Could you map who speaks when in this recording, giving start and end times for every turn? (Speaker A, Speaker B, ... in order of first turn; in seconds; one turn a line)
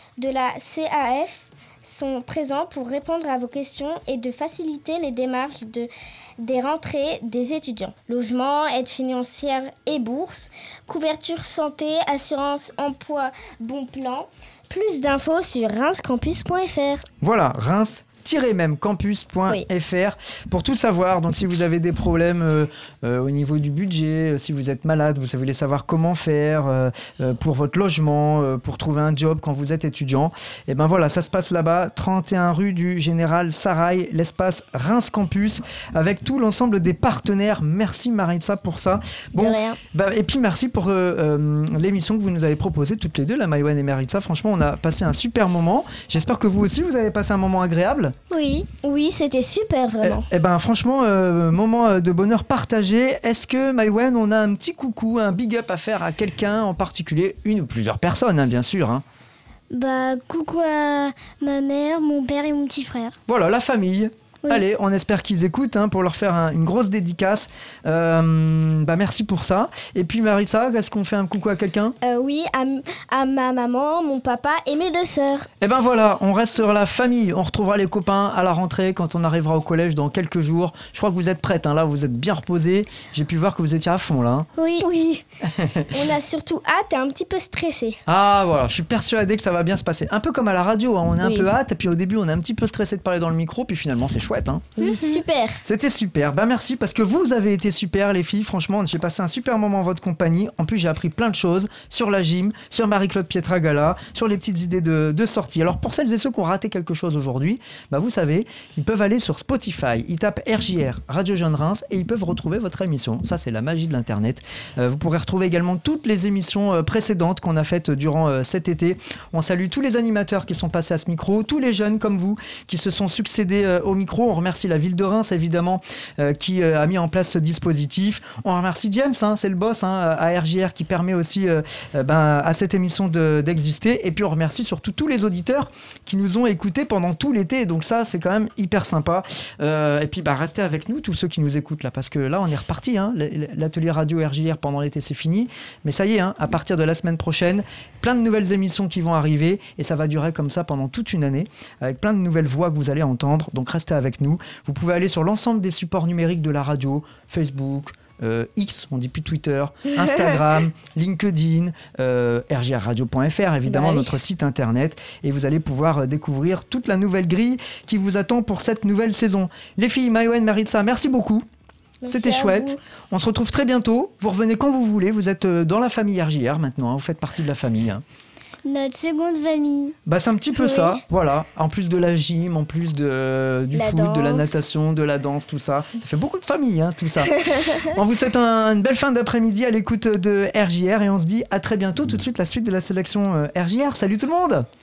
Speaker A: 0.2-17.1
Speaker B: 17.2-48.1
Speaker A: 39.4-39.8
Speaker C: 48.3-48.7
Speaker A: 48.8-50.3
Speaker B: 50.0-59.0
Speaker C: 59.7-63.2
Speaker B: 63.3-72.0
Speaker A: 72.0-75.5
Speaker B: 75.6-84.5
Speaker C: 84.6-84.9
Speaker A: 84.8-85.2
Speaker B: 85.4-85.9
Speaker A: 85.9-88.0
Speaker B: 88.1-94.8
Speaker A: 91.2-91.5
Speaker A: 94.8-95.6
Speaker B: 95.6-171.5
Speaker A: 163.7-164.1
Speaker A: 172.0-172.8
Speaker B: 172.1-178.0
Speaker C: 178.7-179.9
Speaker B: 180.1-194.7
Speaker A: 180.7-181.0
Speaker A: 183.7-184.6
Speaker A: 187.4-187.9